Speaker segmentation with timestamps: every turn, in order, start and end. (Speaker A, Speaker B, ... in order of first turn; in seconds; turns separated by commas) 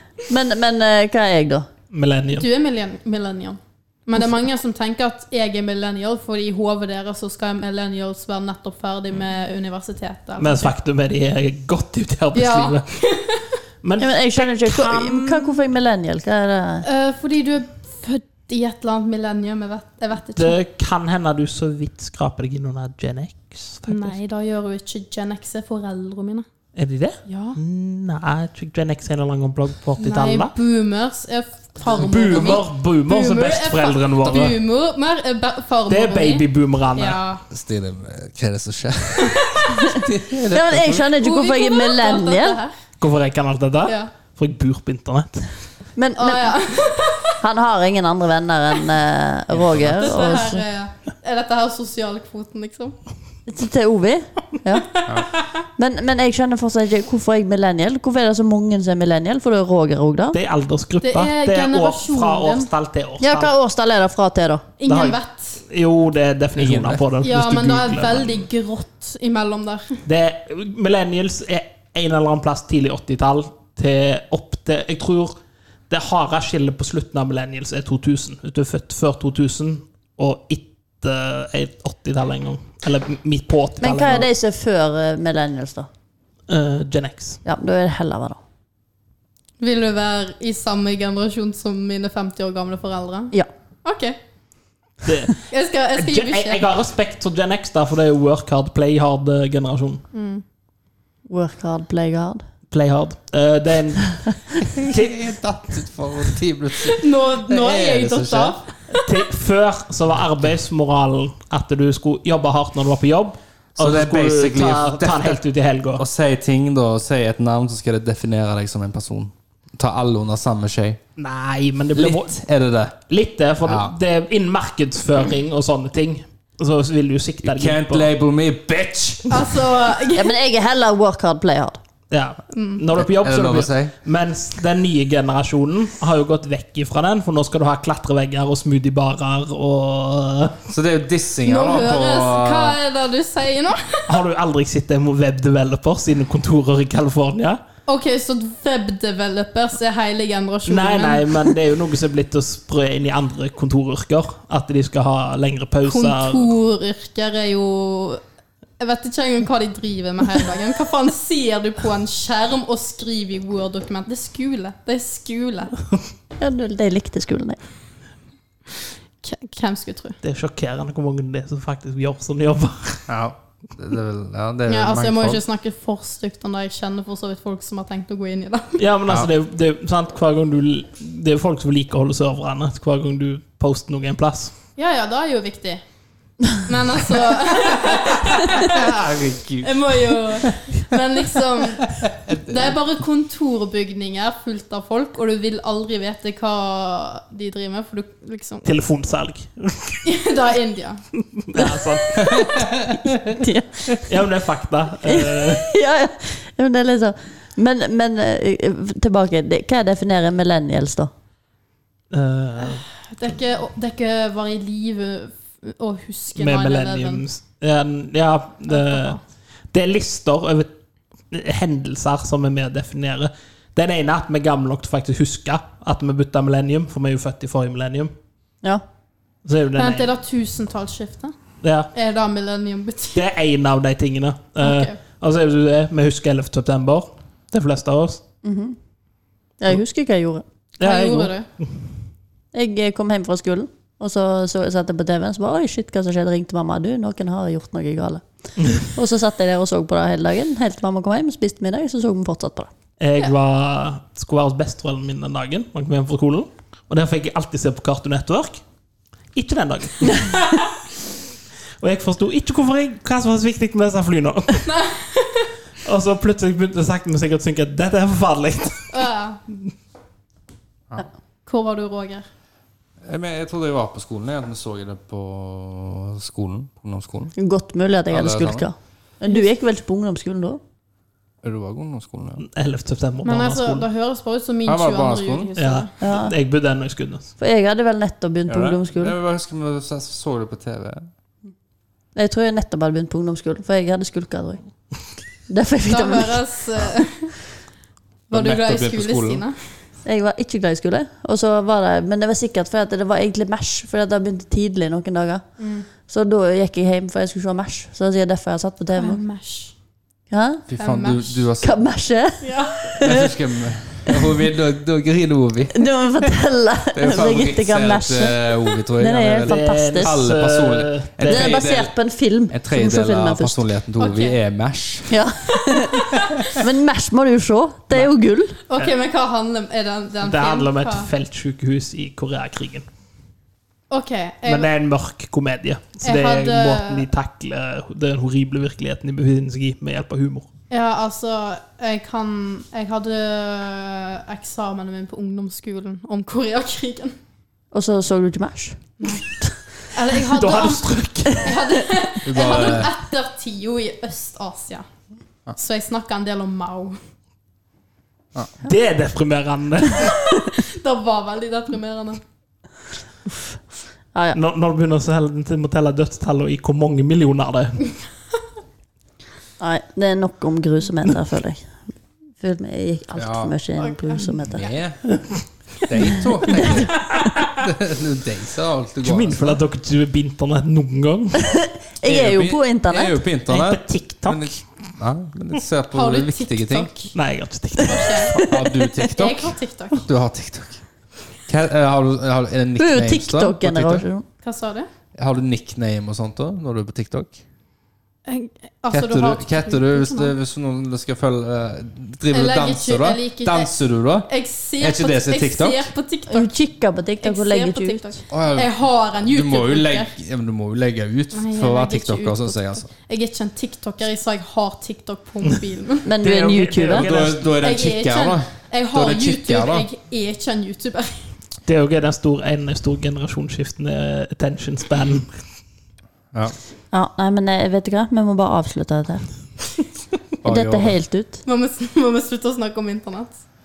Speaker A: 0.3-1.7, Speaker B: 1.9-2.5, Speaker C: 2.3-10.7, Speaker B: 10.4-12.9, Speaker C: 12.3-13.5, Speaker B: 13.8-15.6, Speaker A: 14.0-16.9, Speaker C: 16.8-20.6, Speaker B: 20.4-24.2, Speaker C: 23.9-26.5, Speaker B: 26.8-30.5, Speaker C: 27.3-27.6, Speaker C: 30.0-37.4, Speaker B: 31.9-34.6, Speaker B: 35.9-37.2, Speaker D: 37.5-41.1, Speaker C: 39.4-39.7, Speaker A: 39.9-42.6, Speaker C: 41.2-42.7, Speaker B: 43.0-45.5, Speaker C: 43.9-44.1, Speaker A: 46.0-46.6, Speaker C: 46.1-47.4, Speaker A: 47.4-50.6, Speaker D: 49.5-49.9, Speaker C: 50.0-53.0, Speaker A: 53.5-54.9, Speaker A: 55.8-60.4, Speaker B: 60.3-63.5, Speaker C: 61.0-62.7, Speaker A: 63.2-64.7, Speaker C: 64.8-65.6, Speaker B: 64.9-68.5, Speaker D: 66.6-67.0, Speaker C: 67.2-70.0, Speaker B: 70.1-75.3, Speaker B: 75.9-84.3, Speaker A: 83.8-85.9, Speaker B: 86.5-87.4, Speaker A: 87.4-88.4, Speaker C: 89.6-94.2, Speaker B: 95.0-100.0, Speaker C: 95.5-96.7, Speaker C: 100.1-100.4, Speaker A: 101.3-102.4, Speaker B: 102.7-105.2, Speaker D: 104.8-108.6, Speaker C: 106.9-109.1, Speaker B: 109.0-116.1, Speaker D: 113.8-115.4, Speaker D: 116.0-121.0, Speaker B: 121.2-122.4, Speaker D: 122.0-123.0, Speaker B: 123.1-128.1, Speaker D: 123.6-123.9, Speaker D: 127.4-129.6, Speaker C: 129.3-130.3, Speaker A: 130.1-131.8, Speaker B: 132.1-140.6, Speaker C: 132.5-132.8, Speaker D: 132.9-133.9, Speaker D: 140.7-142.8, Speaker C: 141.4-144.2, Speaker B: 144.1-147.6, Speaker C: 147.9-151.5, Speaker B: 150.7-156.5, Speaker C: 155.8-158.2, Speaker C: 158.8-165.8, Speaker A: 166.4-167.6, Speaker C: 169.2-170.2, Speaker B: 170.2-173.1, Speaker D: 173.1-175.4, Speaker C: 174.7-178.8, Speaker B: 178.8-184.6, Speaker C: 184.8-185.8, Speaker C: 186.5-188.8, Speaker D: 188.5-190.7, Speaker C: 189.6-198.7, Speaker D: 192.0-192.8, Speaker B: 198.6-200.0, Speaker C: 200.0-201.0, Speaker B: 201.4-202.5, Speaker D: 202.2-202.9, Speaker A: 203.3-204.1, Speaker B: 204.0-205.7, Speaker A: 205.0-211.1, Speaker B: 212.1-212.8, Speaker C: 212.6-217.2, Speaker B: 216.4-219.2, Speaker C: 218.7-219.2, Speaker B: 219.7-220.7, Speaker B: 221.3-228.1, Speaker B: 229.4-230.1, Speaker C: 229.8-231.3, Speaker B: 231.6-231.9, Speaker C: 231.9-233.3, Speaker B: 233.1-238.2, Speaker C: 234.6-235.0, Speaker A: 238.4-238.8, Speaker A: 239.6-240.4, Speaker B: 240.8-241.8, Speaker C: 240.8-241.5, Speaker A: 242.5-252.7, Speaker B: 248.6-248.9, Speaker B: 253.0-258.6, Speaker B: 259.4-260.8, Speaker B: 261.8-264.7, Speaker C: 264.7-265.5, Speaker B: 265.9-269.0, Speaker C: 268.9-269.4, Speaker C: 271.5-272.2, Speaker D: 273.0-277.3, Speaker A: 277.4-280.6, Speaker D: 278.1-278.7, Speaker D: 281.4-282.4, Speaker B: 282.4-283.9, Speaker C: 283.2-285.9, Speaker D: 284.7-285.5, Speaker B: 285.6-287.3, Speaker A: 286.0-286.3, Speaker A: 287.4-289.1, Speaker D: 288.5-291.1, Speaker A: 292.1-294.6, Speaker A: 295.5-296.4, Speaker C: 295.9-297.4, Speaker C: 298.3-299.6, Speaker D: 298.3-299.4, Speaker A: 300.1-305.4, Speaker C: 305.6-305.9, Speaker A: 306.1-309.2, Speaker C: 308.9-309.7, Speaker A: 310.3-310.7, Speaker D: 310.7-311.8, Speaker C: 310.8-311.5, Speaker A: 311.6-313.3, Speaker C: 312.4-313.1, Speaker D: 313.0-315.9, Speaker A: 315.7-320.2, Speaker D: 316.9-321.9, Speaker B: 319.4-321.6, Speaker A: 321.3-323.6, Speaker D: 322.5-325.2, Speaker C: 324.0-324.4, Speaker A: 325.1-328.6, Speaker C: 325.6-326.3, Speaker C: 328.7-331.1, Speaker B: 330.2-332.9, Speaker C: 333.9-334.7, Speaker B: 334.5-340.5, Speaker C: 336.0-337.1, Speaker C: 340.7-347.1, Speaker A: 347.7-349.5, Speaker C: 349.0-349.3, Speaker C: 349.9-354.9, Speaker B: 350.1-351.6, Speaker D: 352.3-352.9, Speaker C: 355.6-357.0, Speaker B: 358.6-360.2, Speaker C: 360.4-362.2, Speaker A: 363.3-363.6, Speaker A: 364.1-364.4, Speaker B: 364.3-367.9, Speaker A: 369.6-371.8, Speaker A: 372.4-374.7, Speaker D: 373.2-373.5, Speaker C: 373.8-374.4, Speaker D: 374.5-379.6, Speaker A: 376.6-376.8, Speaker B: 379.0-381.6, Speaker A: 381.5-383.2, Speaker D: 382.1-386.9, Speaker B: 383.5-384.6, Speaker C: 385.9-387.1, Speaker B: 387.1-388.5, Speaker C: 387.8-388.4, Speaker D: 388.4-390.8, Speaker C: 389.1-390.1, Speaker D: 391.4-394.1, Speaker A: 392.8-394.2, Speaker C: 394.4-394.9, Speaker D: 395.2-397.4, Speaker C: 398.3-400.3, Speaker D: 398.9-405.9, Speaker C: 402.3-403.7, Speaker C: 404.3-406.6, Speaker A: 406.3-408.1, Speaker C: 407.2-410.1, Speaker D: 408.3-412.9, Speaker C: 411.3-416.1, Speaker A: 416.1-417.1, Speaker B: 416.2-417.6, Speaker D: 416.8-419.9, Speaker C: 417.6-421.3, Speaker B: 421.7-425.4, Speaker A: 426.9-429.2, Speaker D: 430.4-431.0, Speaker A: 430.4-431.4, Speaker C: 431.4-433.4